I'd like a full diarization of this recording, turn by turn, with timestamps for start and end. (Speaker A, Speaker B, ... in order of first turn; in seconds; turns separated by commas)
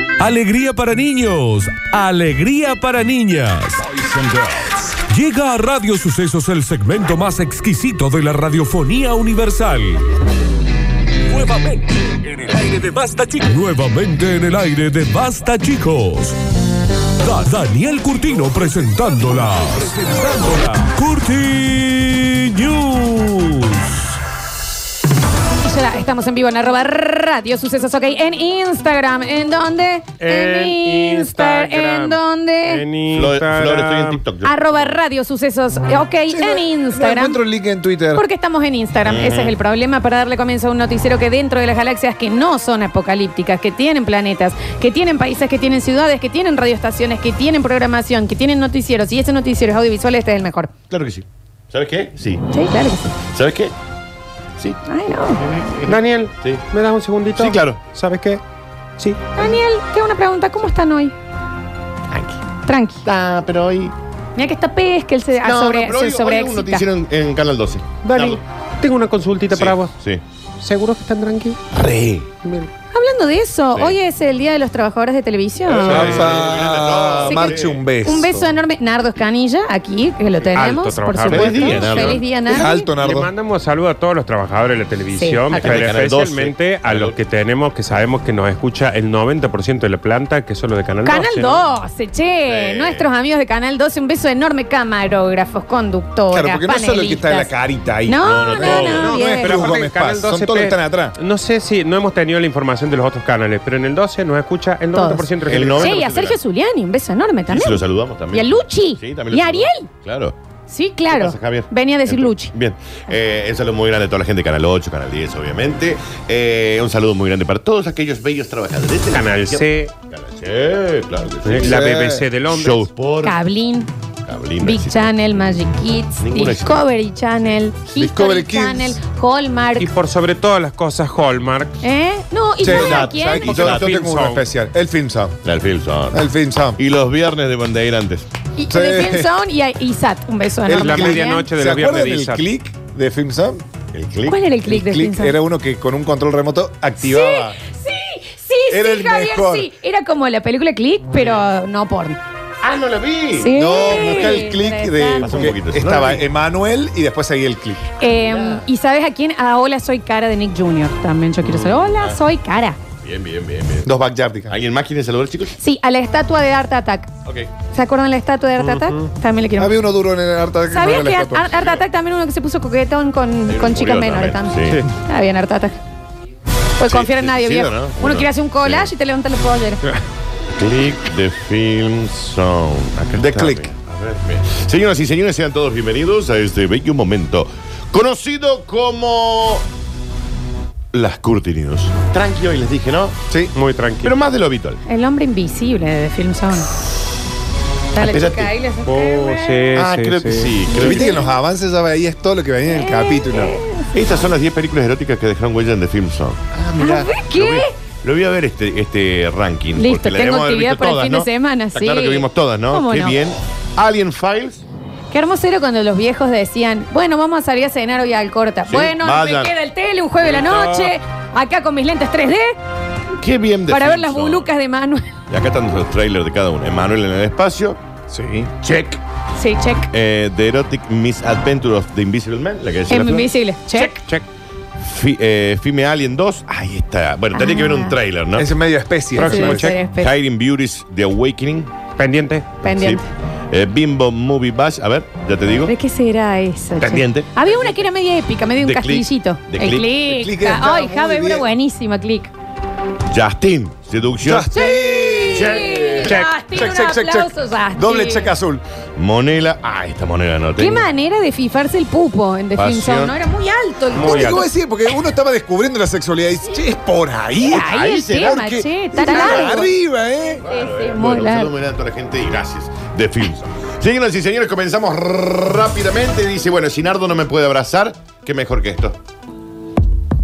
Speaker A: 0.2-10.0, Speaker A: 11.3-16.4, Speaker A: 17.2-24.0, Speaker B: 25.6-32.8, Speaker C: 30.2-34.2, Speaker D: 33.1-34.5, Speaker B: 34.4-37.4, Speaker E: 36.3-38.2, Speaker B: 38.1-50.7, Speaker D: 39.0-39.5, Speaker D: 50.9-52.4, Speaker B: 52.5-53.1, Speaker D: 53.3-53.7, Speaker D: 54.6-56.6, Speaker B: 54.9-55.4, Speaker C: 55.9-58.4, Speaker D: 57.3-57.8, Speaker B: 59.4-61.1, Speaker B: 62.5-63.0, Speaker D: 63.0-63.9, Speaker B: 64.3-66.9, Speaker D: 65.4-68.4, Speaker C: 68.0-69.9, Speaker D: 69.5-70.2, Speaker C: 70.6-71.6, Speaker E: 71.7-72.2, Speaker C: 72.4-72.7, Speaker B: 72.9-76.3, Speaker E: 75.7-78.5, Speaker D: 75.8-77.8, Speaker C: 75.8-76.2, Speaker B: 77.2-82.9, Speaker C: 80.5-91.6, Speaker D: 81.2-82.2, Speaker E: 82.4-83.3, Speaker B: 85.1-85.8, Speaker D: 85.5-87.2, Speaker B: 91.0-97.5, Speaker D: 92.5-93.1, Speaker E: 96.3-101.2, Speaker B: 98.0-99.7, Speaker D: 98.2-99.1, Speaker C: 98.9-106.0, Speaker B: 104.9-109.9, Speaker D: 105.5-106.4, Speaker D: 107.5-110.3, Speaker B: 110.7-112.5, Speaker D: 111.1-121.9, Speaker C: 119.1-119.9, Speaker C: 121.4-122.9, Speaker E: 121.5-122.3, Speaker D: 122.5-123.3, Speaker B: 123.2-123.9, Speaker D: 124.3-125.6, Speaker B: 124.6-129.9, Speaker D: 126.2-126.8, Speaker E: 127.9-129.0, Speaker C: 129.8-131.7, Speaker B: 131.8-133.6, Speaker E: 132.6-135.4, Speaker D: 132.7-133.9, Speaker C: 133.4-134.4, Speaker D: 135.4-136.2, Speaker E: 136.1-136.8, Speaker D: 136.8-138.3, Speaker B: 138.6-141.5, Speaker E: 138.7-139.3, Speaker E: 140.6-143.6, Speaker C: 140.7-142.4, Speaker D: 143.9-144.4, Speaker B: 144.2-145.4, Speaker E: 144.7-147.6, Speaker B: 147.0-152.2, Speaker E: 148.7-149.7, Speaker D: 152.6-154.5, Speaker B: 153.4-155.4, Speaker E: 153.5-157.9, Speaker D: 155.2-156.3, Speaker B: 158.0-162.8, Speaker D: 158.1-158.7, Speaker C: 161.4-161.8, Speaker D: 163.0-163.9, Speaker E: 163.8-164.5, Speaker D: 164.5-165.5, Speaker B: 165.6-167.1, Speaker D: 167.2-167.5, Speaker B: 167.7-169.8, Speaker C: 168.6-169.1, Speaker E: 169.6-171.5, Speaker B: 170.7-175.8, Speaker D: 173.5-174.8, Speaker B: 176.8-179.8, Speaker D: 176.8-178.9, Speaker D: 180.5-189.6, Speaker E: 183.2-183.7, Speaker D: 190.9-193.2, Speaker C: 193.5-194.1, Speaker D: 194.0-194.8, Speaker B: 194.8-196.7, Speaker B: 197.9-199.7, Speaker D: 197.9-198.5, Speaker C: 198.8-200.5, Speaker D: 199.7-201.1, Speaker B: 200.7-201.3, Speaker E: 200.7-203.6, Speaker B: 202.7-203.9, Speaker D: 203.9-214.6, Speaker B: 206.8-207.7, Speaker B: 209.8-213.2, Speaker B: 215.1-222.6, Speaker D: 218.7-219.5, Speaker C: 220.2-220.9, Speaker D: 223.2-224.5, Speaker B: 223.7-225.0, Speaker D: 225.3-227.8, Speaker E: 228.1-228.5, Speaker D: 228.6-229.0, Speaker B: 229.4-229.9, Speaker D: 229.9-233.3, Speaker B: 232.9-234.0, Speaker C: 233.7-234.2, Speaker D: 234.8-238.5, Speaker B: 237.3-237.9, Speaker E: 238.3-239.8, Speaker B: 239.2-240.2, Speaker C: 239.2-239.7, Speaker D: 239.2-241.7, Speaker C: 242.0-242.5, Speaker B: 242.6-243.0, Speaker D: 242.6-245.7, Speaker B: 245.7-252.3, Speaker D: 246.8-247.8, Speaker D: 248.6-249.9, Speaker E: 250.0-251.5, Speaker D: 253.1-254.5, Speaker E: 254.2-258.6, Speaker B: 254.5-258.3, Speaker D: 255.3-256.2, Speaker C: 256.0-256.3, Speaker D: 259.0-260.9, Speaker B: 260.6-264.4, Speaker D: 262.6-263.1, Speaker C: 263.9-264.4, Speaker E: 264.0-270.4, Speaker B: 267.4-269.7, Speaker D: 267.6-268.4, Speaker D: 269.0-269.6, Speaker D: 270.4-279.0, Speaker B: 270.4-271.5